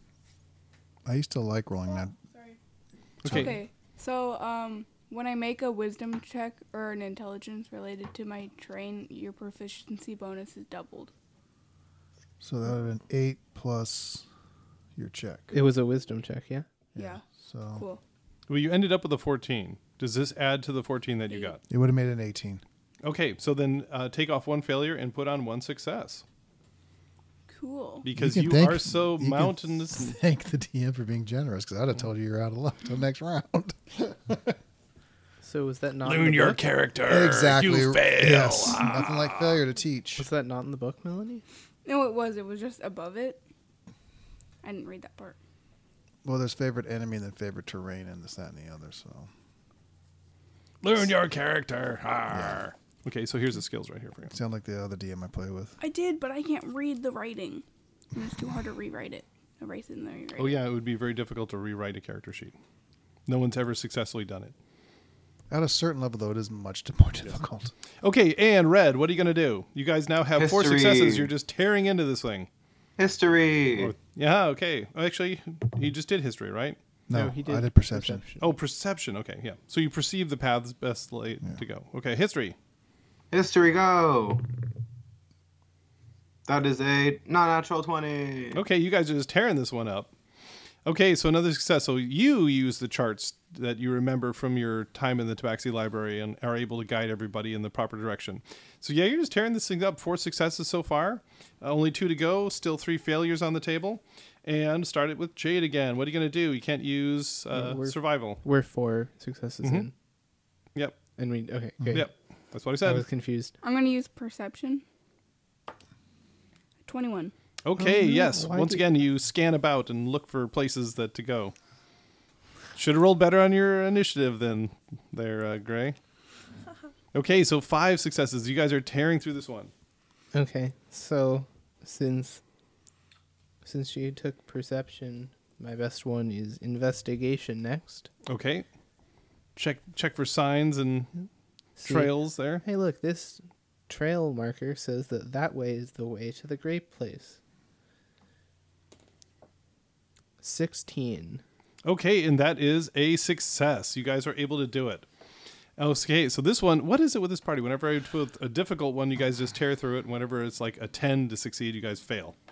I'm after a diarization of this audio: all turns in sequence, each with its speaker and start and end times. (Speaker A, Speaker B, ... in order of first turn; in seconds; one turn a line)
Speaker A: 1.1-2.1
Speaker B: 1.9-2.6
Speaker C: 3.2-3.5
Speaker A: 3.2-3.6
Speaker B: 3.2-11.1
Speaker A: 12.4-14.2
Speaker A: 14.9-15.5
Speaker D: 15.5-16.6
Speaker A: 16.9-17.8
Speaker B: 17.0-17.2
Speaker B: 17.7-18.0
Speaker C: 18.5-21.6
Speaker B: 21.3-21.5
Speaker A: 21.7-22.6
Speaker C: 23.0-26.2
Speaker B: 27.5-28.1
Speaker C: 28.0-30.1
Speaker A: 28.1-34.6
Speaker D: 35.4-36.6
Speaker C: 36.0-39.6
Speaker A: 37.1-40.3
Speaker D: 40.2-41.4
Speaker B: 41.9-43.4
Speaker B: 44.6-45.4
Speaker A: 46.2-49.3
Speaker C: 50.8-54.4
Speaker A: 52.3-52.6
Speaker A: 54.3-55.8
Speaker B: 55.8-60.6
Speaker C: 60.4-62.5
Speaker C: 63.3-64.5
Speaker A: 65.5-67.7
Speaker C: 68.0-72.5
Speaker E: 70.3-71.3
Speaker E: 73.0-73.9
Speaker C: 73.8-76.8
Speaker A: 77.1-78.2
Speaker D: 77.1-78.5
Speaker C: 78.4-82.5
Speaker E: 83.3-84.4
Speaker E: 86.5-88.6
Speaker C: 88.5-90.1
Speaker C: 90.8-108.4
Speaker D: 107.5-109.9
Speaker D: 111.2-112.1
Speaker C: 111.9-113.0
Speaker D: 112.8-113.5
Speaker B: 113.6-114.8
Speaker B: 116.8-117.3
Speaker C: 117.6-121.5
Speaker D: 117.8-118.8
Speaker C: 122.8-126.0
Speaker C: 127.1-129.7
Speaker D: 130.3-132.4
Speaker D: 133.6-138.1
Speaker C: 138.2-138.7
Speaker C: 139.6-141.3
Speaker D: 141.8-147.4
Speaker C: 141.8-142.6
Speaker D: 150.4-151.4
Speaker C: 151.8-155.1
Speaker C: 155.8-162.3